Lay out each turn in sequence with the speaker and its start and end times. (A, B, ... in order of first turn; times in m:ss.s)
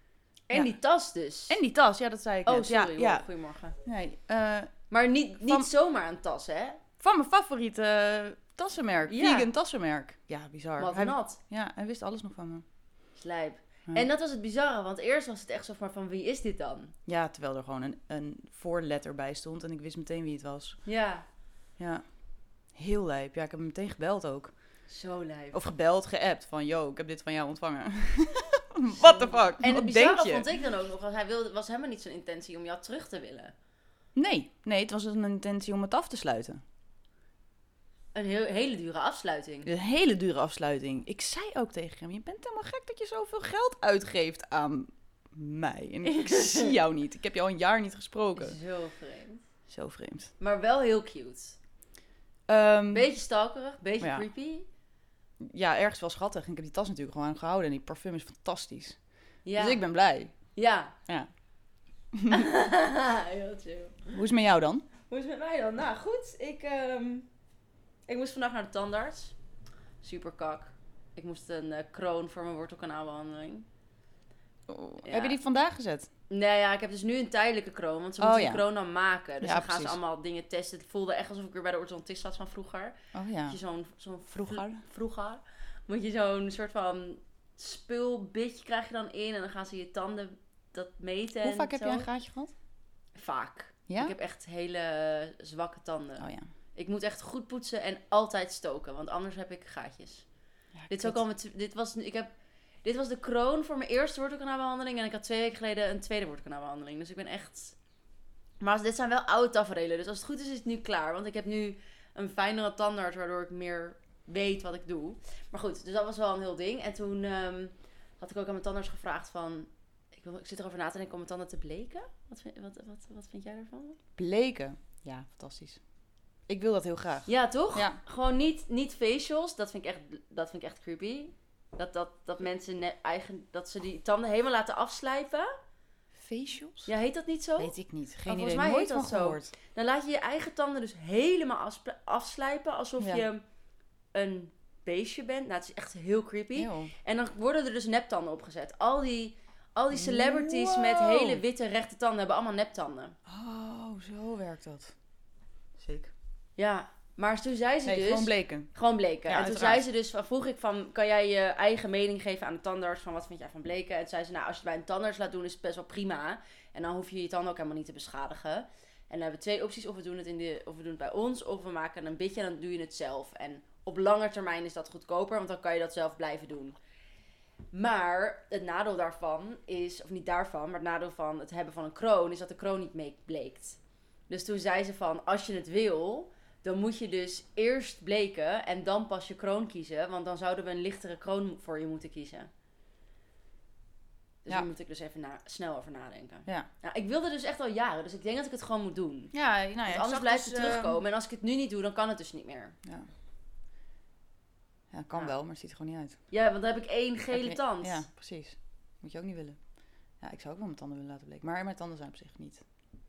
0:00.5-0:01.6 A
0:01.5-0:03.2 B
0:02.5-0:03.8 A
0:03.8-0:04.8 B
0:04.9-0:06.8 A
0:05.4-0:05.7 B
0:07.0-0:12.6 B
0:09.1-0:09.5 A
0:10.8-0:11.4 A
0:13.2-0:17.0 A
0:17.1-0:20.8 B
0:20.9-0:21.3 A
0:21.8-0:22.0 B
0:22.8-0:24.5 B
0:24.9-0:25.6 A
0:25.5-0:30.5 B
0:28.9-0:33.5 A
0:34.2-0:36.6 B
0:38.2-0:39.7 A
0:39.7-0:48.6 B
0:46.0-0:46.7 A
0:48.4-0:49.4 A
0:49.7-0:50.3 B
0:50.4-0:51.6 A
0:52.5-0:53.1 B
0:52.9-0:54.7 A
0:54.0-0:54.3 B
0:55.4-0:59.0 B
0:59.4-0:59.8 A
0:59.6-1:00.4 B
1:00.5-1:01.0 A
1:02.1-1:02.5 B
1:02.3-1:04.2 A
1:04.1-1:04.9 B
1:05.1-1:07.3 A
1:08.1-1:09.4 A
1:10.0-1:13.7 A
1:14.7-1:16.1 B
1:15.0-1:15.4 A
1:16.3-1:32.1 A
1:18.2-1:18.6 B
1:19.4-1:20.0 B
1:23.1-1:23.6 B
1:24.3-1:24.8 B
1:31.4-1:32.5 B
1:33.2-1:40.3 A
1:33.9-1:34.1 B
1:36.2-1:36.5 B
1:40.8-1:41.2 B
1:40.9-1:42.3 A
1:42.8-1:47.8 A
1:48.6-2:04.0 A
2:04.2-2:05.8 B
2:06.5-2:08.0 B
2:07.3-2:15.5 A
2:16.2-2:16.9 B
2:16.9-2:17.7 A
2:17.6-2:19.5 B
2:18.3-2:23.4 A
2:23.0-2:23.3 B
2:24.1-2:33.2 A
2:26.6-2:26.9 B
2:29.9-2:31.4 B
2:33.3-2:34.9 B
2:35.8-2:36.1 B
2:36.6-2:56.8 A
2:37.8-2:38.7 B
2:39.3-2:39.8 B
2:57.7-3:03.8 A
3:04.3-3:12.5 A
3:14.4-3:19.3 A
3:19.3-3:21.0 B
3:19.9-3:22.8 A
3:24.9-3:26.2 B
3:26.3-3:28.1 A
3:27.3-3:29.6 B
3:30.2-3:32.6 B